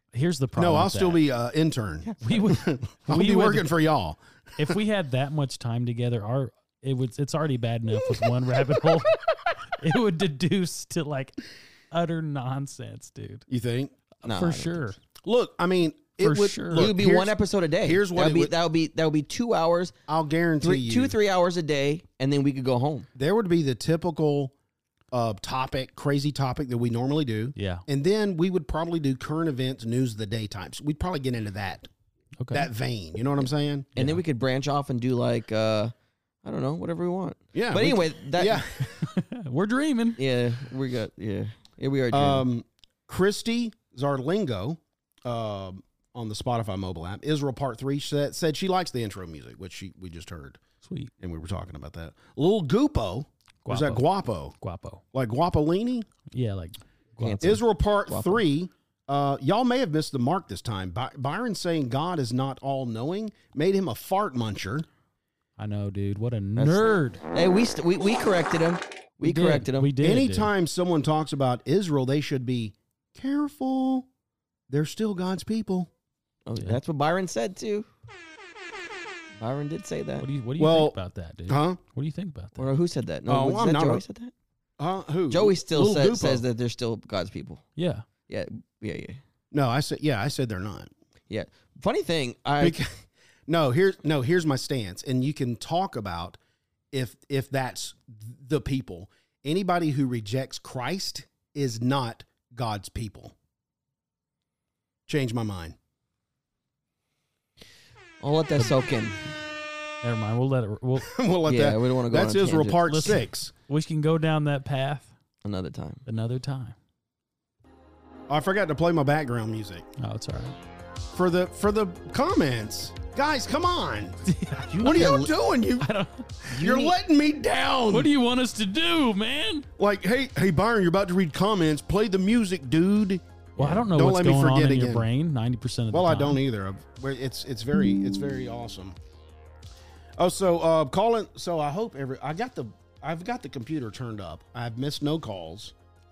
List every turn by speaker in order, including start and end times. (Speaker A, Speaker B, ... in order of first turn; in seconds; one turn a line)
Speaker A: 0.1-1.2
Speaker B: 0.6-4.7
Speaker C: 2.0-2.4
Speaker A: 2.2-3.7
Speaker A: 4.6-13.4
Speaker B: 13.5-13.9
Speaker A: 14.2-15.0
Speaker C: 14.2-14.8
Speaker B: 15.2-18.5
Speaker A: 16.2-16.9
Speaker C: 16.7-19.9
Speaker B: 20.1-21.1
Speaker C: 20.6-23.1
Speaker B: 23.1-24.5
Speaker B: 25.1-31.9
Speaker A: 27.6-27.8
Speaker A: 32.4-32.7
Speaker B: 32.5-33.9
Speaker A: 33.9-34.2
Speaker C: 34.0-38.6
Speaker B: 37.5-39.0
Speaker A: 39.0-40.2
Speaker C: 40.1-42.5
Speaker B: 42.1-50.6
Speaker A: 50.8-51.1
Speaker B: 51.2-54.5
Speaker A: 53.6-55.0
Speaker B: 55.1-56.1
Speaker A: 56.3-57.6
Speaker C: 57.2-58.4
Speaker B: 57.4-64.9
Speaker A: 65.6-67.2
Speaker C: 66.5-69.9
Speaker A: 69.2-70.5
Speaker B: 70.0-74.1
Speaker B: 74.7-75.9
Speaker C: 76.4-77.9
Speaker C: 79.4-80.2
Speaker A: 80.2-82.7
Speaker B: 80.6-81.0
Speaker B: 81.5-81.8
Speaker C: 82.6-84.3
Speaker B: 83.3-84.0
Speaker B: 84.8-86.4
Speaker C: 85.3-87.6
Speaker A: 87.8-88.0
Speaker C: 88.3-89.2
Speaker B: 89.5-90.9
Speaker C: 91.3-92.8
Speaker B: 92.6-96.4
Speaker B: 96.9-103.3
Speaker B: 105.1-105.8
Speaker C: 108.2-109.2
Speaker A: 110.0-111.1
Speaker B: 111.0-113.5
Speaker C: 111.5-112.8
Speaker A: 112.9-115.1
Speaker C: 115.4-116.0
Speaker A: 116.0-116.8
Speaker B: 118.3-119.8
Speaker A: 120.0-120.5
Speaker B: 121.1-124.2
Speaker A: 124.2-126.8
Speaker B: 124.8-125.9
Speaker B: 126.5-128.1
Speaker C: 126.6-126.9
Speaker A: 127.9-129.7
Speaker B: 129.8-135.1
Speaker A: 133.6-136.4
Speaker B: 135.9-139.0
Speaker B: 140.2-145.7